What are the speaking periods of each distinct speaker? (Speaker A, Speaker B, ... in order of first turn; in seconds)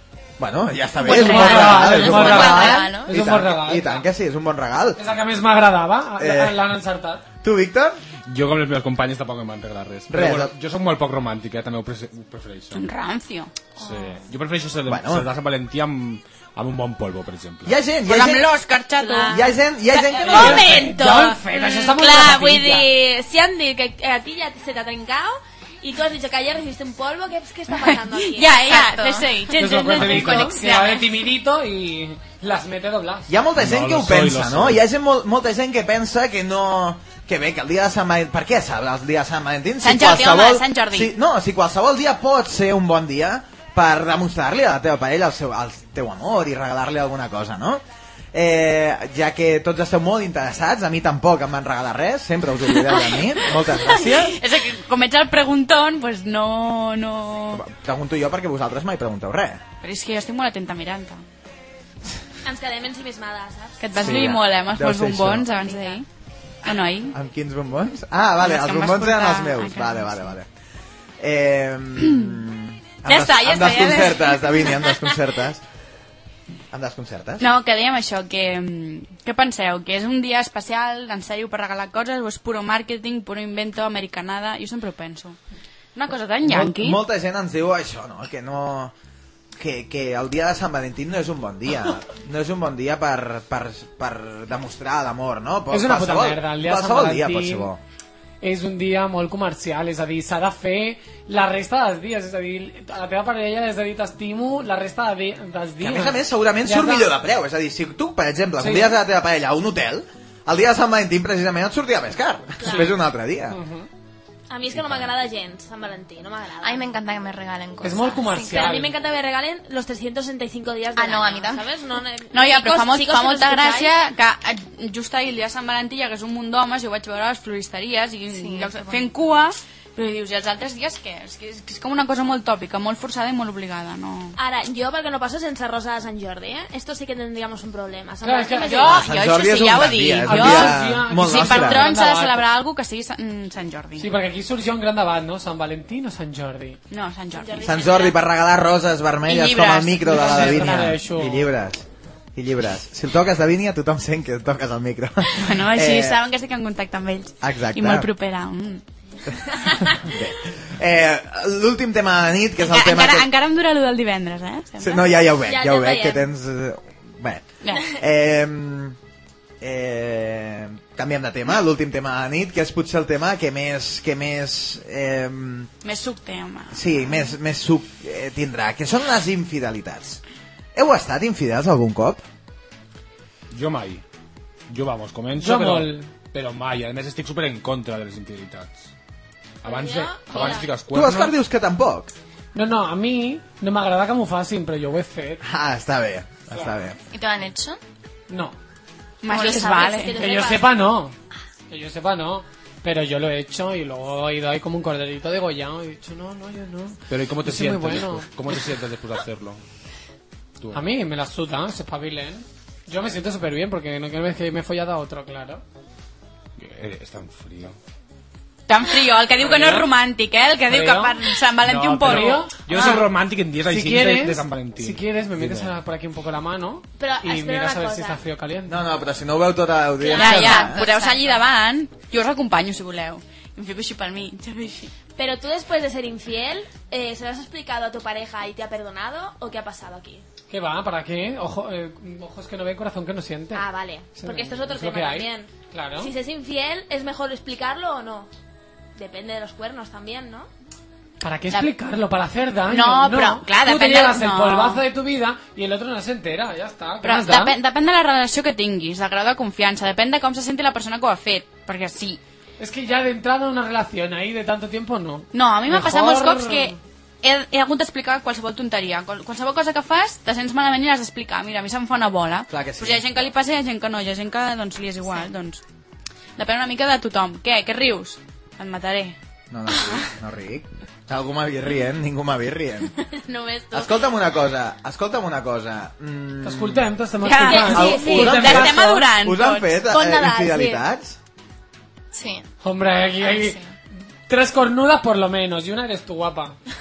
Speaker A: 0.4-5.0, 6.2-6.6, 7.4-8.0, 10.1-10.5, 14.9-15.3, 17.6-18.5, 19.3-20.8, 33.3-54.4, 57.5-59.6, 64.0-65.5, 67.1-70.5, 71.2-75.6, 76.7-77.5, 86.4-88.9, 89.6-97.8, 105.8-113.6, 138.8-141.9, 147.6-156.2, 157.4-158.1, 159.8-163.3, 164.8-169.0, 169.6-175.7, 176.7-180.2, 180.8-182.2, 190.9-192.1, 195.4-197.0, 228.7-230.8, 272.5-273.1, 279.5-282.9, 283.7-286.9, 287.7-291.2
Speaker B: 1.0-4.0, 5.0-7.2, 20.2-22.9, 29.6-33.3, 95.7-97.7, 98.4-107.1, 108.6-109.0, 113.5-113.9, 117.8-119.0, 138.2-138.9, 140.3-142.4, 144.0-146.8, 150.0-151.5, 185.4-186.1, 192.6-195.4, 198.3-198.6, 200.2-201.2, 201.7-208.7, 210.7-215.6, 219.4-219.9, 220.7-223.0, 223.7-228.8, 240.5-243.6, 244.2-246.1, 251.2-257.6, 262.6-266.8, 286.4-289.1, 292.6-293.6, 294.3-296.6
Speaker C: 1.1-3.1, 28.6-29.3, 116.6-118.8, 121.0-121.7, 128.3-129.1, 197.1-197.8, 199.3-200.0, 230.2-231.4, 292.1-292.5, 293.2-293.7
Speaker D: 1.1-1.7, 12.7-13.7, 18.0-19.5, 20.2-20.5, 27.7-31.0, 39.8-41.1, 52.7-57.6, 59.8-61.2, 63.8-66.1, 66.6-67.2, 68.4-70.3, 73.1-74.8, 77.4-85.4, 86.0-87.0, 122.3-134.4, 138.6-144.1, 146.9-147.8, 149.3-150.9, 155.3-158.8, 162.6-165.1, 167.6-167.9, 175.8-177.2, 199.2-200.2, 218.7-223.0, 230.1-234.9, 252.7-254.8, 257.0-262.2, 265.3-275.6, 276.4-279.2, 287.2-290.8
Speaker E: 8.3-12.8, 13.8-17.7, 33.6-34.8, 183.5-184.0, 184.7-188.9, 189.6-191.3, 207.1-209.6, 210.6-210.9, 216.6-217.8, 221.7-225.8
Speaker F: 19.0-19.4, 20.0-28.8, 62.4-63.9, 65.6-66.0, 112.6-112.9, 114.5-116.9, 118.5-123.9, 134.4-139.1, 147.3-148.2, 165.4-166.2, 189.6-190.7, 199.3-200.7, 227.0-228.2, 230.0-230.4, 235.2-240.2, 243.5-248.3, 249.0-250.5, 283.1-283.9, 287.5-288.3